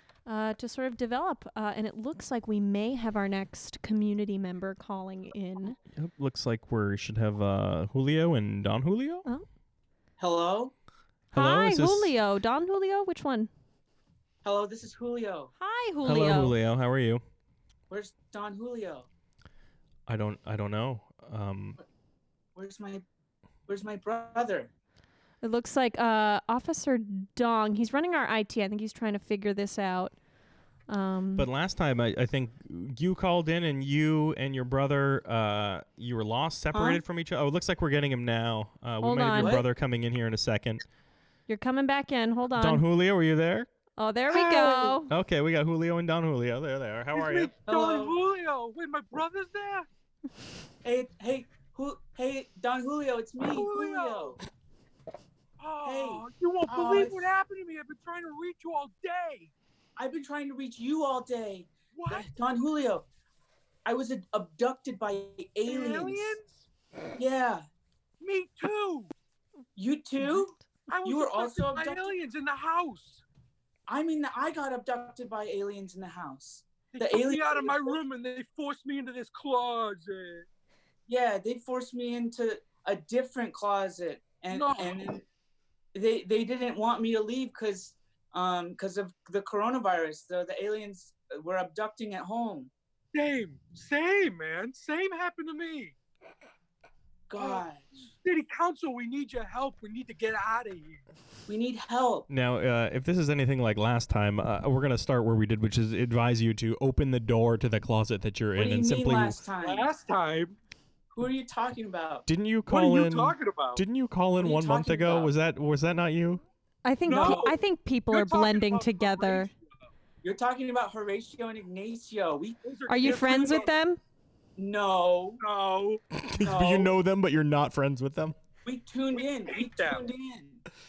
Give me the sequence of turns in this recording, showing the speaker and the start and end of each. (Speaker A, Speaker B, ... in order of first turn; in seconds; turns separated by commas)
Speaker A: 0.3-5.8, Speaker B: 5.9-9.2, Speaker C: 10.2-10.7, Speaker A: 11.3-13.5, Speaker B: 11.3-12.1, Speaker C: 14.4-15.5, Speaker A: 15.6-16.6, Speaker B: 16.1-17.2, Speaker C: 17.9-19.1, Speaker B: 20.1-21.8, Speaker C: 22.6-23.0, Speaker C: 23.7-24.7, Speaker A: 25.4-30.1, Speaker A: 30.9-31.5, Speaker B: 31.4-40.8, Speaker C: 36.7-37.0, Speaker A: 39.0-39.6, Speaker C: 39.3-39.7, Speaker A: 41.5-42.9, Speaker B: 42.6-43.7, Speaker A: 44.0-45.1, Speaker D: 44.3-45.0, Speaker B: 45.1-47.5, Speaker D: 47.1-49.9, Speaker C: 47.7-48.2, Speaker C: 50.8-54.4, Speaker D: 53.4-54.4, Speaker D: 55.6-59.5, Speaker C: 55.8-57.3, Speaker C: 60.0-63.1, Speaker D: 61.9-62.4, Speaker C: 63.9-66.4, Speaker D: 65.7-66.7, Speaker C: 67.2-67.7, Speaker D: 68.2-69.1, Speaker C: 69.8-72.1, Speaker D: 70.9-73.2, Speaker C: 73.9-78.0, Speaker D: 76.9-80.5, Speaker C: 81.1-85.2, Speaker D: 84.5-85.1, Speaker C: 85.9-92.7, Speaker D: 93.1-96.0, Speaker C: 97.3-98.0, Speaker D: 97.4-97.7, Speaker D: 98.2-101.0, Speaker C: 101.5-102.3, Speaker B: 102.3-109.5, Speaker C: 108.6-109.9, Speaker D: 109.6-110.6, Speaker C: 111.1-112.2, Speaker B: 112.3-116.4, Speaker D: 112.7-113.8, Speaker C: 114.4-115.3, Speaker A: 116.8-119.5, Speaker D: 117.1-119.6, Speaker C: 117.1-117.6, Speaker C: 120.2-122.6, Speaker D: 122.6-123.7, Speaker A: 122.9-124.0, Speaker C: 124.6-125.4, Speaker D: 125.4-126.0, Speaker B: 126.3-128.4, Speaker C: 126.4-127.0, Speaker C: 128.7-130.6, Speaker D: 129.1-130.1